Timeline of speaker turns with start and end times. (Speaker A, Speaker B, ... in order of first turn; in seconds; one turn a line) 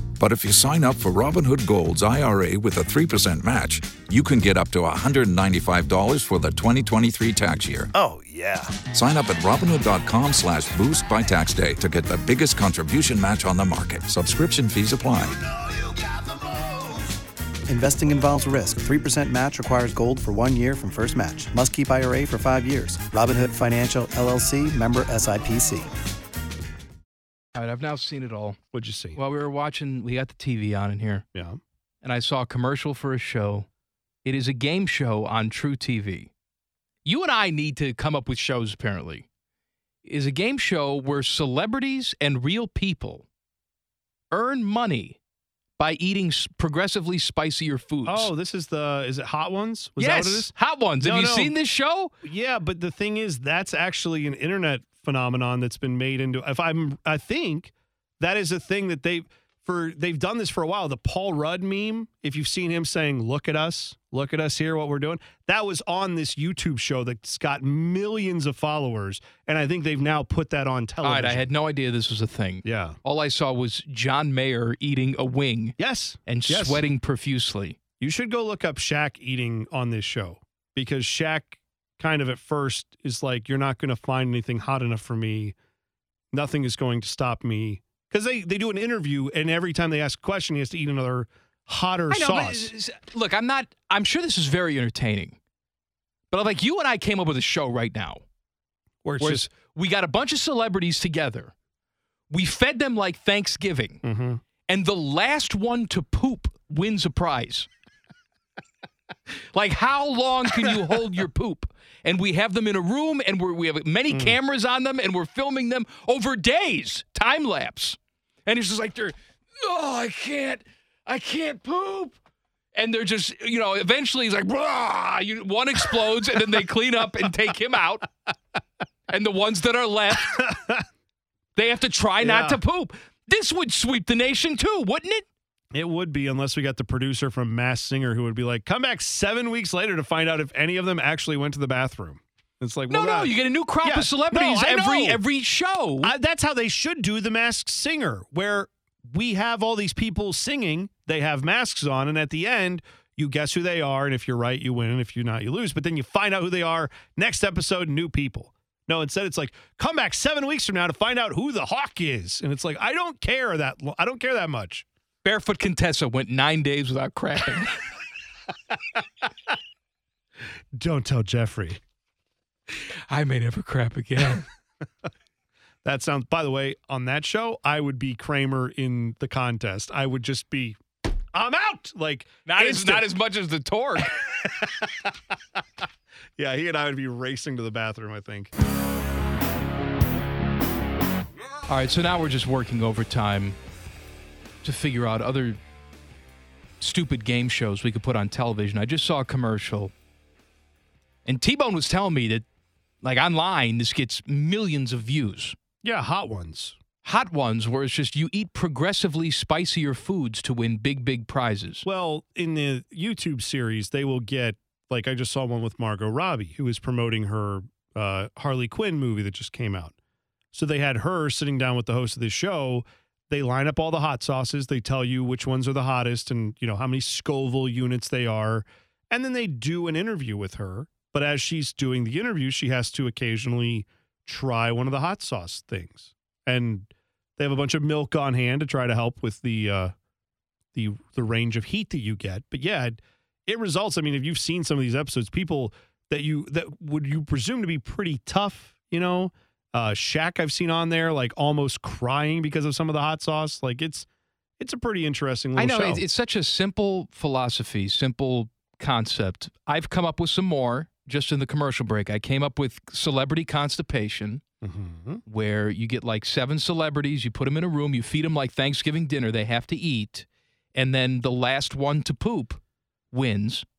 Speaker A: 0.2-7.9
Speaker B: 7.9-8.8
Speaker A: 8.9-15.5
Speaker B: 17.7-25.9
Speaker C: 27.5-28.6
Speaker D: 28.7-29.2
Speaker C: 29.1-31.2
Speaker D: 31.3-31.6
Speaker C: 32.0-33.7
Speaker C: 34.2-36.3
Speaker C: 37.0-39.3
Speaker C: 40.0-43.3
Speaker C: 44.3-45.2
Speaker C: 45.8-48.3
Speaker D: 48.0-51.5
Speaker C: 50.0-52.1
Speaker D: 52.2-71.5
Speaker C: 71.0-77.8
Speaker D: 72.6-73.0
Speaker D: 75.8-76.8
Speaker D: 78.0-85.5
Speaker D: 86.3-92.7
Speaker C: 92.1-95.4
Speaker C: 96.3-98.2
Speaker D: 99.0-99.5
Speaker C: 99.2-101.5
Speaker C: 102.3-104.0
Speaker D: 104.0-104.4
Speaker C: 104.7-107.7
Speaker C: 109.5-122.2
Speaker D: 114.1-114.4
Speaker C: 122.8-128.1
Speaker C: 129.1-130.4
Speaker D: 130.4-130.7
Speaker C: 131.6-135.2
Speaker D: 132.2-132.6
Speaker D: 135.7-145.2
Speaker C: 142.9-146.1
Speaker D: 146.0-164.8
Speaker C: 165.2-167.8
Speaker D: 170.8-171.8
Speaker C: 173.1-174.5
Speaker D: 175.8-180.8
Speaker D: 181.3-183.1
Speaker C: 182.4-184.1
Speaker D: 184.4-185.1
Speaker D: 186.4-188.5
Speaker C: 191.7-193.6
Speaker C: 194.6-195.6
Speaker C: 196.8-199.9
Speaker C: 201.2-202.4
Speaker C: 203.0-205.6
Speaker D: 205.8-206.8
Speaker C: 207.0-211.8
Speaker D: 211.8-219.9
Speaker D: 220.5-239.9
Speaker D: 240.7-254.1
Speaker D: 254.6-256.0
Speaker C: 255.6-264.4
Speaker D: 264.6-265.2
Speaker C: 265.3-272.6
Speaker C: 273.1-273.6